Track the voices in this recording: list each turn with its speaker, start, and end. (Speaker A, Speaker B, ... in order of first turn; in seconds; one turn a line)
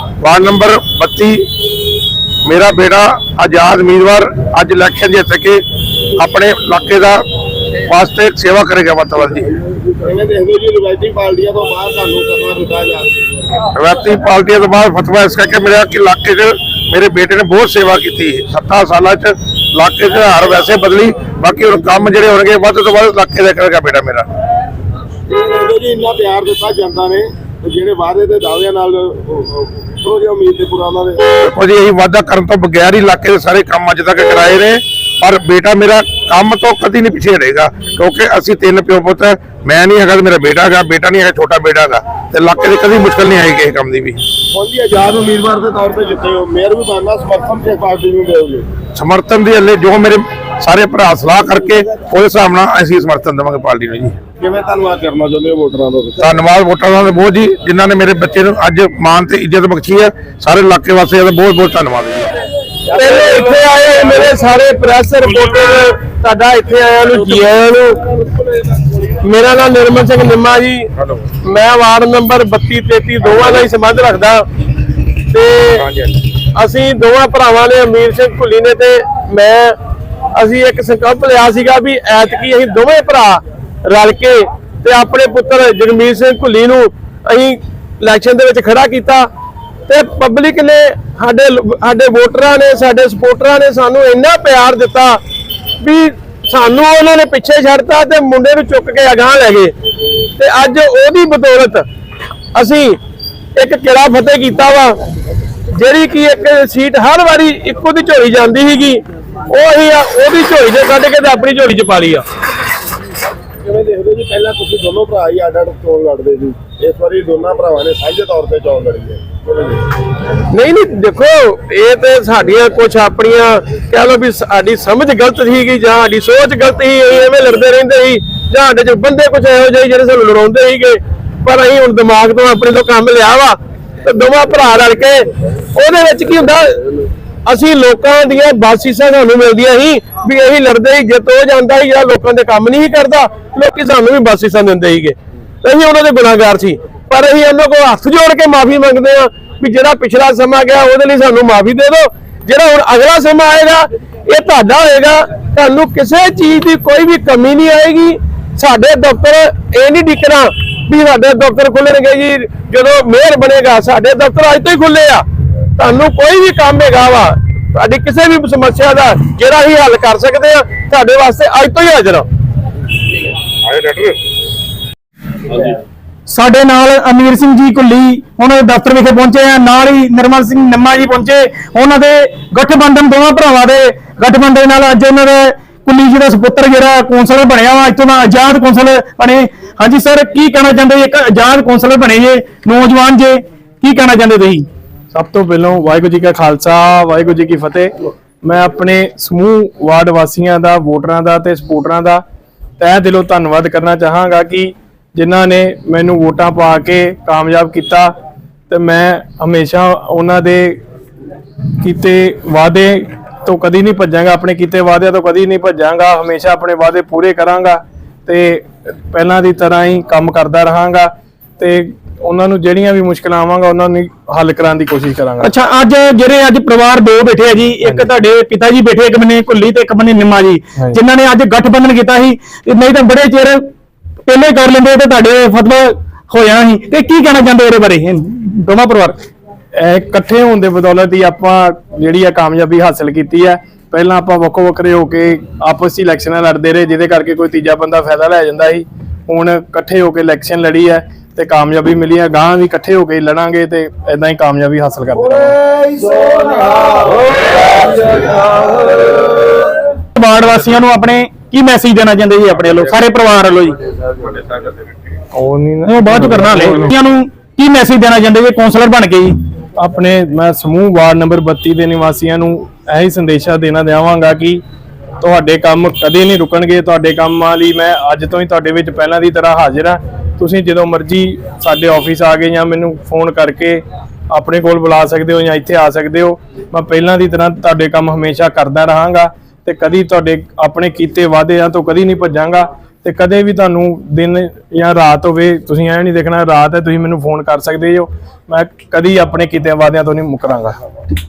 Speaker A: 0.2-1.5
Speaker A: 2.4-5.6
Speaker A: 6.2-7.2
Speaker A: 7.7-9.5
Speaker B: 9.7-13.6
Speaker A: 13.7-24.3
Speaker B: 25.3-31.3
Speaker A: 31.4-44.2
Speaker B: 44.5-48.7
Speaker A: 48.9-54.2
Speaker B: 54.4-56.2
Speaker A: 56.2-62.4
Speaker B: 62.9-63.6
Speaker C: 62.9-68.2
Speaker C: 69.2-74.5
Speaker C: 75.3-79.8
Speaker C: 80.3-89.3
Speaker C: 89.9-95.2
Speaker C: 95.8-99.7
Speaker C: 100.3-101.8
Speaker C: 102.5-103.0
Speaker C: 103.5-105.0
Speaker C: 105.7-112.2
Speaker B: 113.6-119.8
Speaker C: 120.5-172.3
Speaker A: 173.6-174.2
Speaker D: 176.3-194.7
Speaker E: 195.1-202.2
Speaker E: 202.8-208.1
Speaker E: 208.7-210.8
Speaker E: 211.8-225.5
Speaker D: 225.4-233.6
Speaker E: 227.8-228.1
Speaker D: 234.3-239.2
Speaker E: 239.7-255.7
Speaker D: 260.1-263.8
Speaker E: 265.3-266.9
Speaker D: 265.8-269.3
Speaker E: 269.8-274.6
Speaker E: 275.2-300.8